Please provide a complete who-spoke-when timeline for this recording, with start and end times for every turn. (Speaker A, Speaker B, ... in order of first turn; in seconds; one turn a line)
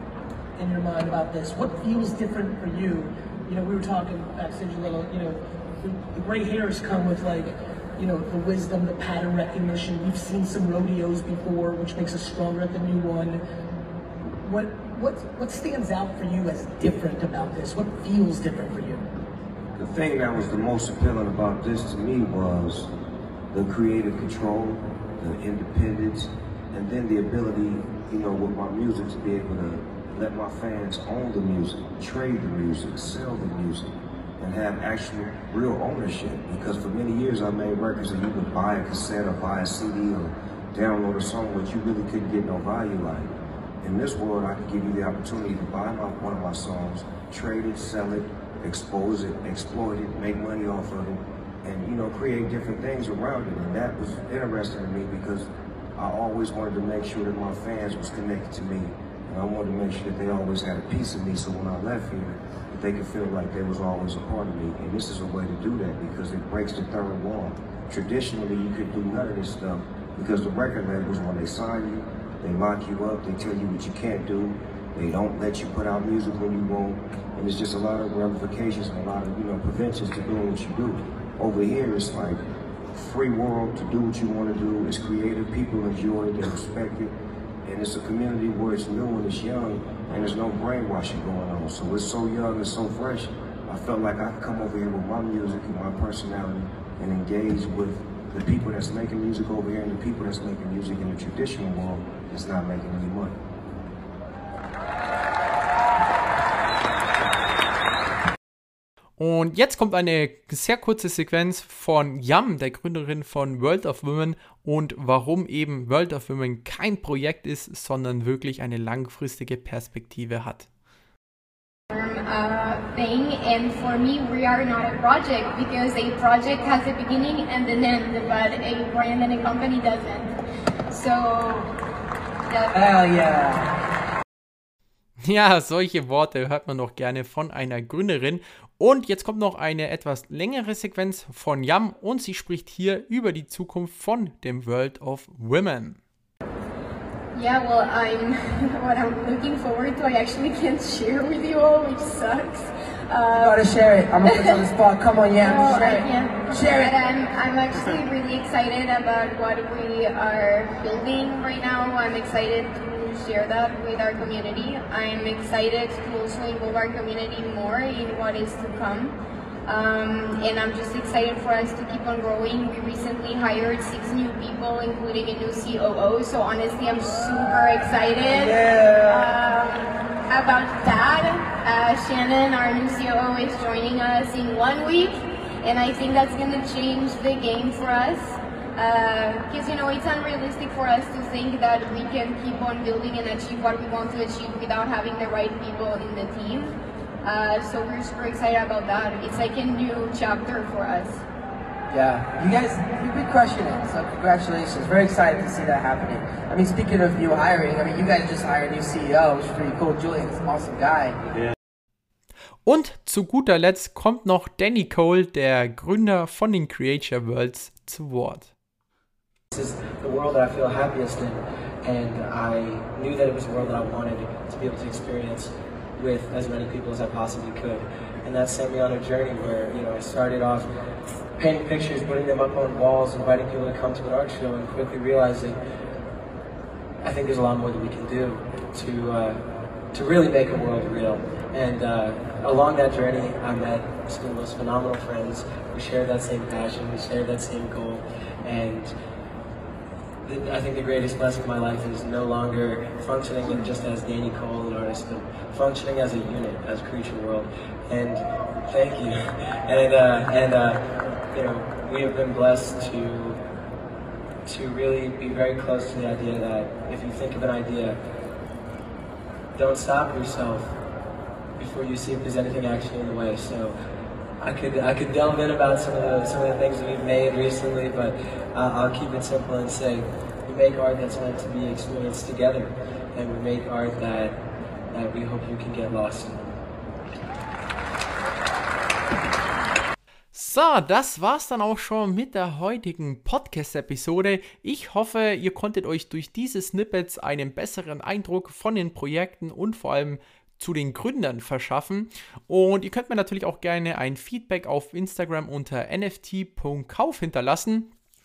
Speaker A: 0.6-13.4
Speaker A: 14.4-19.1
Speaker B: 19.8-22.9
Speaker B: 23.5-82.4
Speaker B: 82.9-103.4
Speaker C: 109.2-120.7
Speaker D: 121.9-130.4
Speaker D: 130.9-131.7
Speaker D: 132.5-132.8
Speaker E: 132.7-133.7
Speaker C: 135.2-146.0
Speaker D: 147.3-153.6
Speaker E: 153.3-157.0
Speaker D: 155.4-178.6
Speaker E: 157.7-158.0
Speaker E: 178.2-179.4
Speaker D: 179.1-201.2
Speaker E: 201.9-211.5
Speaker C: 212.7-218.5
Speaker F: 219.5-230.7
Speaker F: 231.4-235.6
Speaker F: 237.0-248.9
Speaker F: 250.2-260.8
Speaker F: 261.3-263.4
Speaker F: 264.5-268.0
Speaker F: 269.6-270.8
Speaker F: 271.6-273.8
Speaker F: 274.4-284.4
Speaker F: 284.9-286.5
Speaker C: 290.3-307.9